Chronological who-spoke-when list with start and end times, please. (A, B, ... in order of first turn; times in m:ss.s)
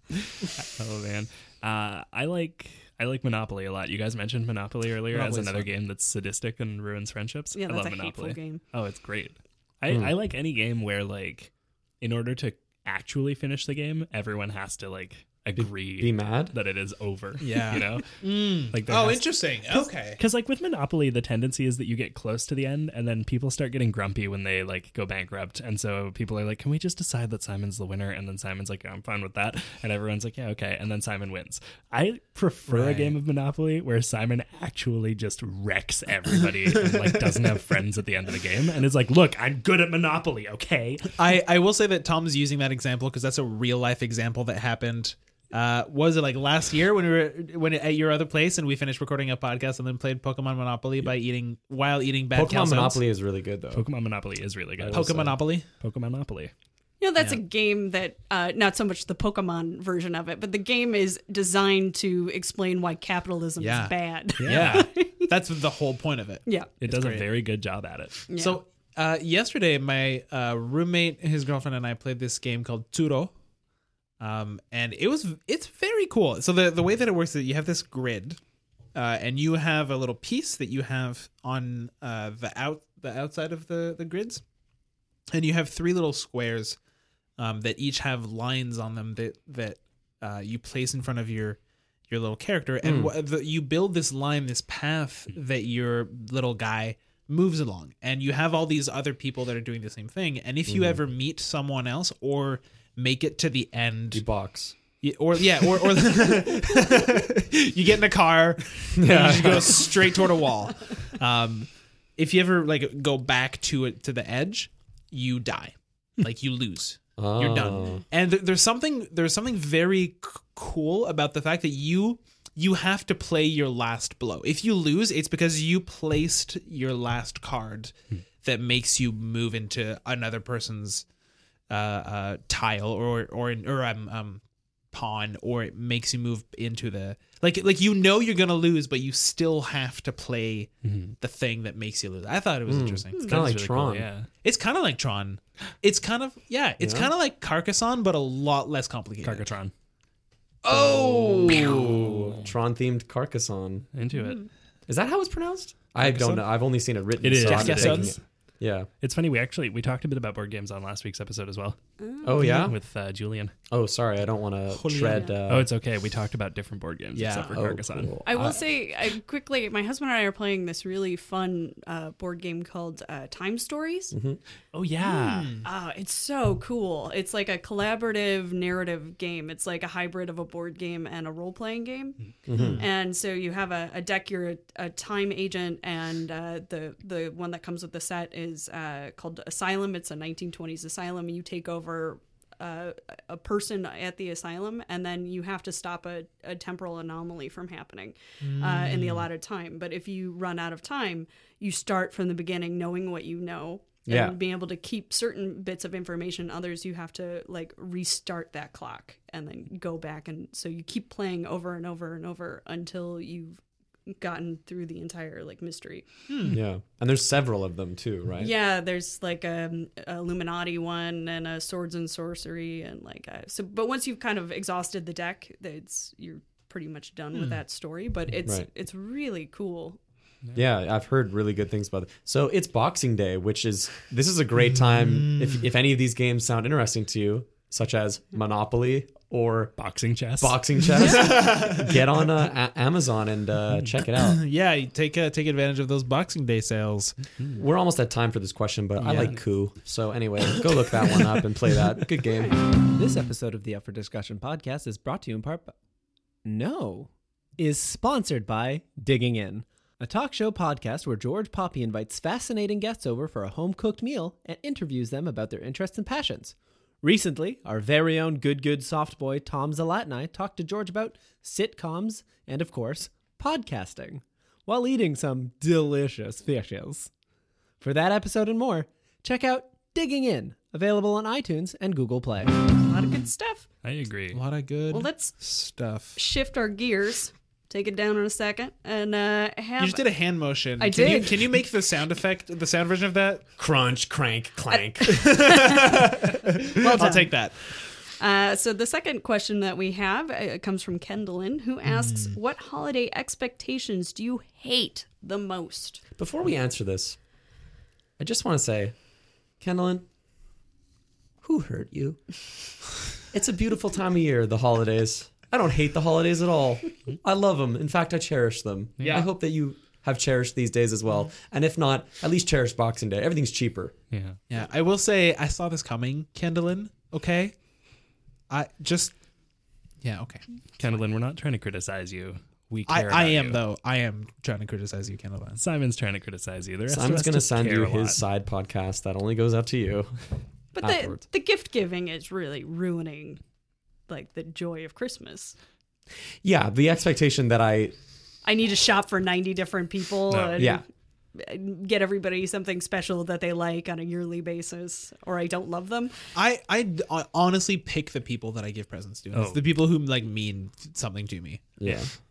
0:00.6-0:41.1 A
0:05.1-0:05.7 B
0:07.6-0:08.6 C
0:09.9-0:10.1 D
0:15.6-0:16.6 D
0:17.4-0:20.2 B
0:32.7-0:33.2 B
0:36.7-0:37.4 B
0:41.2-0:53.0 B
0:52.3-0:53.9 D
0:53.7-0:56.5 A
0:54.8-0:55.4 D
0:54.9-0:55.7 B
0:57.0-1:05.3 C
1:03.6-1:07.3 B
1:04.4-1:04.9 A
1:06.8-1:08.2 A
1:08.3-1:08.6 C
1:08.3-1:13.3 B
1:14.2-1:18.4 B
1:19.0-1:24.4 B
1:25.3-1:26.8 B
1:27.4-1:44.2 B
1:32.8-1:33.1 D
1:40.7-1:41.0 D
1:44.1-1:44.8 D
1:45.0-2:11.0 B
1:49.0-1:50.1 D
1:57.2-1:58.0 D
2:11.7-2:23.4 B
2:20.8-2:21.2 A
2:22.7-2:24.1 D
2:23.2-2:24.3 A
2:24.4-2:29.5 B
2:26.8-2:27.1 D
2:29.2-2:29.7 A
2:30.6-2:33.9 D
2:30.7-2:32.4 B
2:33.9-2:34.4 A
2:34.1-2:34.5 C
2:34.9-2:38.9 D
2:36.0-2:36.4 B
2:37.2-2:38.2 A
2:37.5-2:38.1 B
2:39.0-2:41.8 A
2:42.0-2:42.4 C
2:42.2-2:42.8 D
2:42.4-2:43.5 A
2:43.7-2:45.7 D
2:44.7-2:45.3 B
2:45.5-2:48.2 A
2:47.2-2:47.6 B
2:47.5-2:48.6 D
2:48.2-2:54.1 C
2:54.1-2:54.4 D
2:54.7-2:55.5 A
2:55.0-3:02.2 C
2:55.3-2:55.7 B
3:02.5-3:02.8 D
3:02.5-3:02.8 B
3:02.8-3:36.1 C
3:18.4-3:19.3 B
3:24.1-3:24.4 D
3:36.3-3:36.6 B
3:36.5-3:38.5 D
3:38.4-3:50.0 C
3:50.5-3:59.8 D
3:54.7-3:55.6 B
3:59.8-4:00.6 A
4:00.4-4:04.4 D
4:01.0-4:02.0 B
4:04.2-4:07.2 B
4:07.6-4:12.6 D
4:09.0-4:09.4 A
4:09.0-4:09.3 B
4:13.0-4:15.7 E
4:16.4-4:37.1 E
4:37.8-4:42.5 E
4:42.6-4:43.6 C
4:43.8-4:44.4 A
4:44.3-4:46.2 B
4:44.9-4:45.4 C
4:46.2-4:50.0 C
4:49.8-4:53.5 B
4:50.8-4:51.5 C
4:53.6-4:55.4 D
4:54.7-4:56.0 C
4:55.1-4:57.7 B
4:56.8-4:57.4 C
4:58.2-5:06.0 C
5:01.9-5:02.4 B
5:06.2-5:07.2 D
5:08.2-5:09.0 D
5:09.6-5:10.1 D
5:11.4-5:12.3 D
5:13.3-5:24.0 D
5:19.0-5:19.2 A
5:24.1-5:24.4 A
5:24.5-5:27.6 B
5:28.5-5:29.2 B
5:30.0-5:30.4 B
5:30.8-5:33.6 A
5:32.9-5:35.6 B
5:35.6-5:38.2 A
5:36.9-5:40.2 D
5:40.8-5:43.4 C
5:40.8-5:41.2 D
5:44.1-5:45.6 C
5:46.4-5:48.0 D
5:48.4-5:50.8 C
5:50.3-5:50.7 A
5:50.6-5:50.8 D
5:51.4-5:56.1 C
5:56.4-6:01.8 B
5:59.3-5:59.7 A
6:01.8-6:02.1 D